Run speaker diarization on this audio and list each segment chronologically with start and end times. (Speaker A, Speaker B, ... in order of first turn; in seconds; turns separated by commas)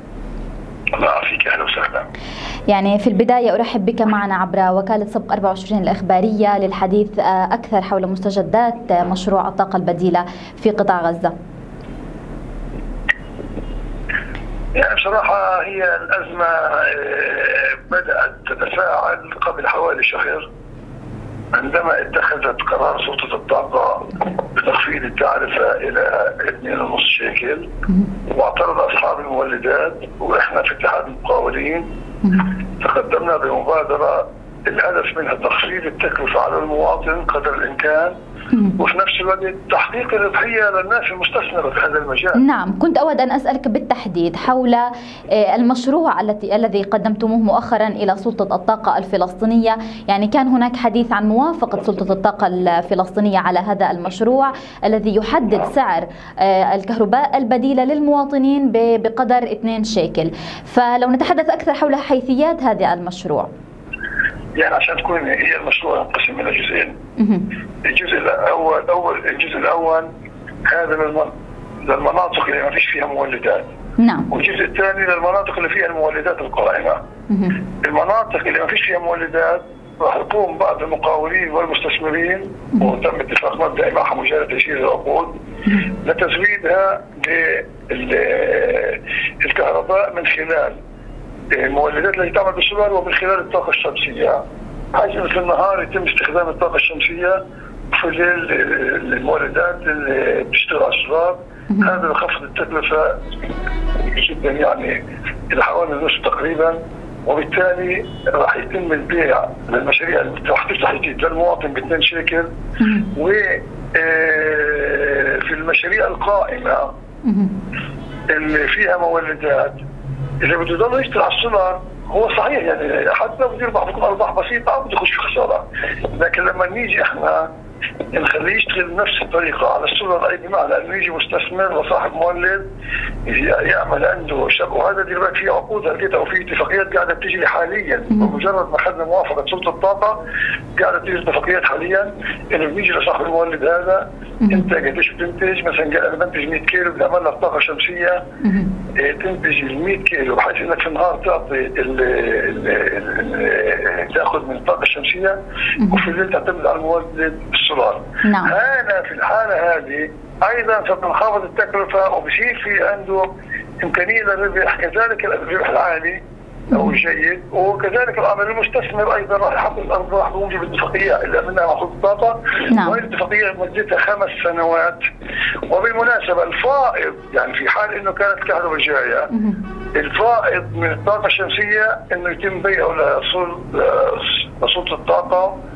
Speaker A: 0.9-2.1, Speaker B: 2.7-11.3, Speaker A: 14.7-20.5, Speaker A: 21.5-27.7, Speaker A: 28.3-31.9, Speaker A: 32.8-38.1, Speaker B: 38.5-38.8, Speaker A: 38.8-42.4, Speaker B: 42.3-63.5, Speaker A: 64.6-66.9, Speaker B: 67.2-67.5, Speaker A: 67.8-70.1, Speaker A: 70.7-71.3, Speaker A: 71.8-73.7, Speaker B: 74.0-74.3, Speaker A: 74.3-77.0, Speaker B: 77.3-77.6, Speaker A: 77.8-85.3, Speaker A: 86.0-90.8, Speaker A: 91.5-94.4, Speaker A: 94.9-97.4, Speaker A: 97.9-103.2, Speaker B: 101.7-102.0, Speaker A: 104.0-105.0, Speaker A: 105.5-112.5, Speaker B: 112.8-113.1, Speaker A: 113.1-116.9, Speaker B: 117.2-117.5, Speaker A: 118.3-119.8, Speaker A: 120.4-127.5, Speaker A: 128.1-132.6, Speaker A: 133.2-140.2, Speaker A: 140.8-148.2, Speaker B: 148.4-148.7, Speaker A: 148.9-163.3, Speaker B: 158.2-158.5, Speaker A: 163.8-166.2, Speaker A: 166.7-175.0, Speaker B: 172.7-173.0, Speaker A: 175.7-179.3, Speaker B: 179.3-179.6, Speaker A: 179.9-185.5